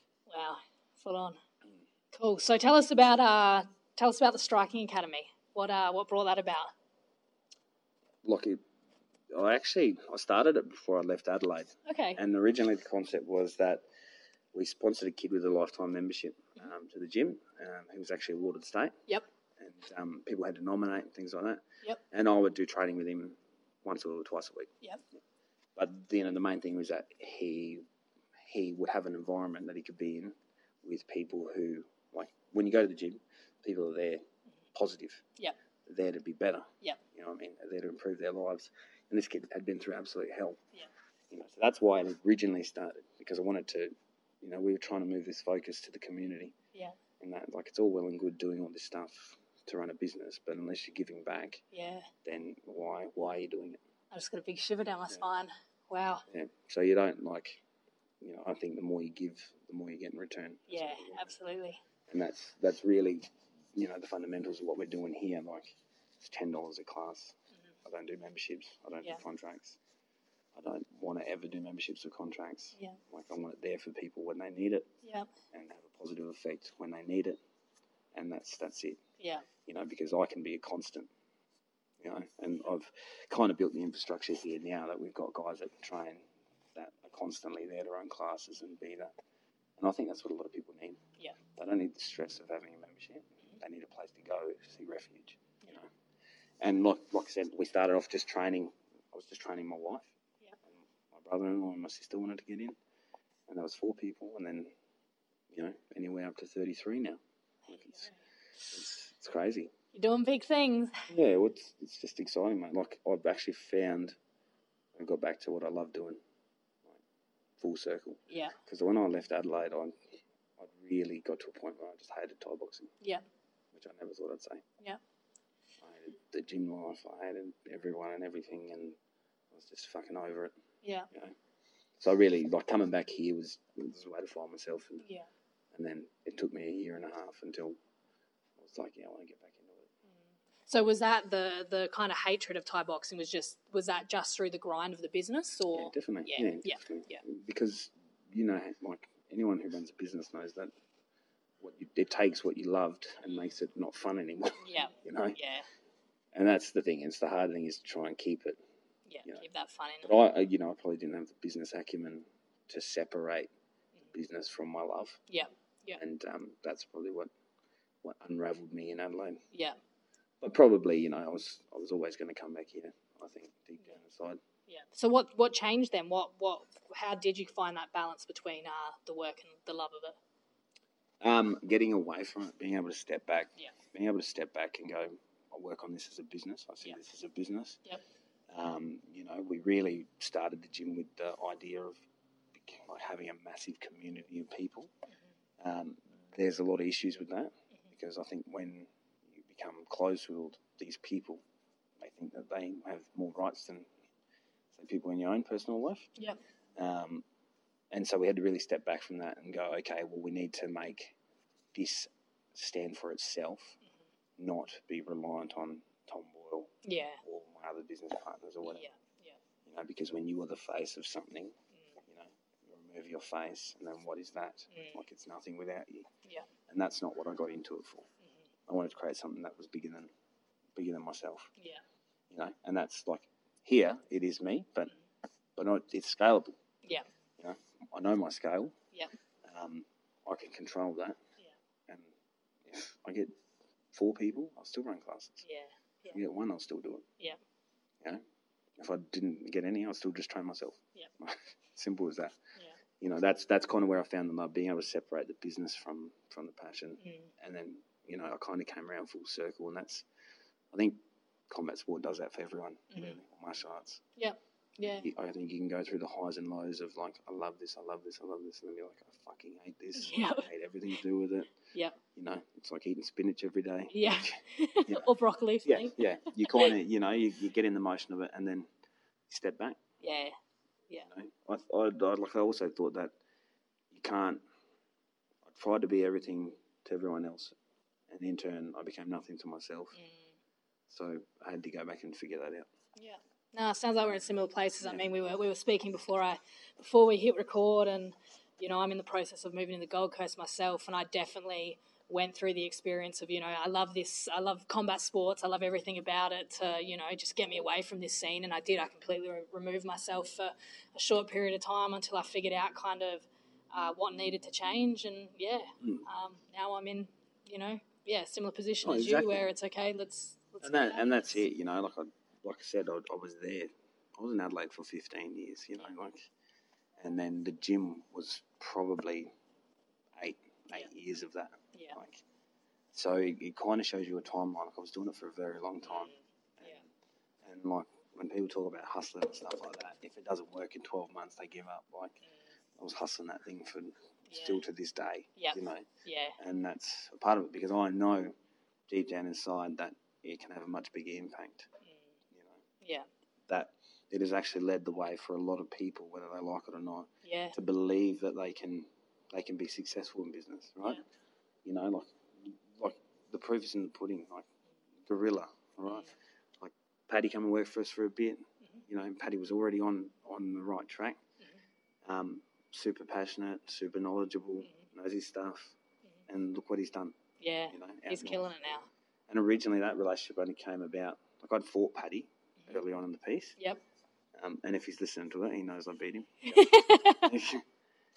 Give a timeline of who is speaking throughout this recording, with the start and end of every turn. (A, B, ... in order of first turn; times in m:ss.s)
0:00.3-0:01.4 A
0:02.1-0:06.7 A
0:08.2-0:08.6 B
0:09.3-0:13.8 B
0:11.9-0:12.2 A
0:14.5-0:19.0 B
0:19.6-0:24.7 B
0:25.8-0:27.8 B
0:28.5-0:34.2 B
0:34.7-0:35.2 B
0:35.8-0:40.6 B
0:41.3-0:46.6 B
0:47.2-0:51.6 B
0:51.7-0:52.1 A
0:52.2-0:53.8 B
0:54.1-0:56.2 A
0:56.3-0:57.6 B
0:58.2-1:01.3 B
1:00.7-1:01.8 A
1:02.1-1:09.8 B
1:10.6-1:14.9 B
1:15.0-1:15.3 A
1:15.5-1:17.4 B
1:18.1-1:19.0 B
1:19.2-1:19.4 A
1:19.7-1:21.1 B
1:22.0-1:26.2 B
1:26.7-1:29.1 B
1:29.8-1:31.0 B
1:31.6-1:35.9 B
1:36.6-1:40.1 B
1:40.7-1:42.8 B
1:43.5-1:44.7 B
1:45.5-1:48.1 B
1:47.7-1:48.2 A
1:48.7-1:49.7 B
1:49.9-1:51.1 A
1:51.1-1:54.2 B
1:54.9-1:56.2 B
1:57.6-1:59.9 B
1:58.3-1:58.6 A
2:00.6-2:02.9 B
2:03.7-2:04.6 B
2:05.8-2:09.0 B
2:09.5-2:10.6 B
2:10.8-2:11.1 A
2:12.0-2:15.0 B
2:15.7-2:17.8 B
2:18.6-2:19.9 B
2:20.7-2:27.2 A
2:25.7-2:30.7 B
2:31.6-2:35.4 B
2:34.6-2:35.7 A
2:36.3-2:38.6 B
2:39.1-2:40.1 A
2:40.0-2:43.5 B
2:44.1-2:45.2 B
2:45.3-2:46.0 A
2:46.0-2:47.3 B
2:48.0-2:49.4 B
2:50.4-2:54.4 B
2:54.7-3:00.2 A
3:01.2-3:07.8 B
3:08.5-3:12.0 B
3:12.5-3:14.9 B
3:15.6-3:21.4 B
3:22.0-3:23.9 B
3:24.7-3:26.1 B
3:26.8-3:27.2 B
3:27.9-3:31.1 B
3:31.7-3:33.8 B
3:34.4-3:38.8 B
3:36.8-3:37.2 A
3:38.6-3:39.4 A
3:39.7-3:46.1 B
3:44.7-3:45.0 A
3:46.7-3:48.1 B
3:48.7-3:50.1 B
3:50.7-3:51.5 B
3:52.3-3:54.9 B
3:55.6-3:56.6 B
3:57.4-3:58.7 B
3:59.4-4:01.2 B
4:02.6-4:03.3 B
4:03.9-4:05.4 B
4:05.4-4:06.2 A
4:06.1-4:07.1 B
4:08.8-4:12.4 B
4:13.0-4:20.1 B
4:17.0-4:17.3 A
4:20.7-4:24.0 B
4:22.9-4:23.2 A
4:24.2-4:25.1 A
4:25.0-4:31.5 B
4:30.0-4:30.5 A
4:32.1-4:35.1 B
4:33.9-4:36.7 A
4:35.6-4:38.7 B
4:39.3-4:39.8 B
4:40.0-4:40.4 A
4:41.1-4:43.1 B
4:43.9-4:44.4 B
4:45.4-4:47.6 B
4:48.1-4:50.0 B
4:50.0-4:50.3 A
4:50.9-4:52.7 B
4:53.0-5:21.3 A
5:18.8-5:19.5 B
5:20.6-5:26.3 B
5:27.0-5:29.3 B
5:30.2-5:32.2 B
5:32.9-5:36.9 B
5:35.8-5:36.8 A
5:37.4-5:42.2 B
5:42.8-5:45.9 B
5:44.3-5:44.6 A
5:45.4-5:46.4 A
5:46.4-5:48.3 B
5:48.9-5:51.7 B
5:51.9-5:52.1 A
5:52.3-5:52.6 B
5:52.8-5:53.1 A
5:53.5-6:01.0 B
5:57.2-5:57.6 A
6:01.6-6:04.4 B
6:05.1-6:11.2 B
6:05.9-6:06.1 A
6:12.0-6:15.8 B
6:16.3-6:17.2 B
6:17.4-6:18.9 A
6:17.7-6:18.4 B
6:19.3-6:23.6 B
6:24.4-6:27.6 B
6:26.4-6:27.3 A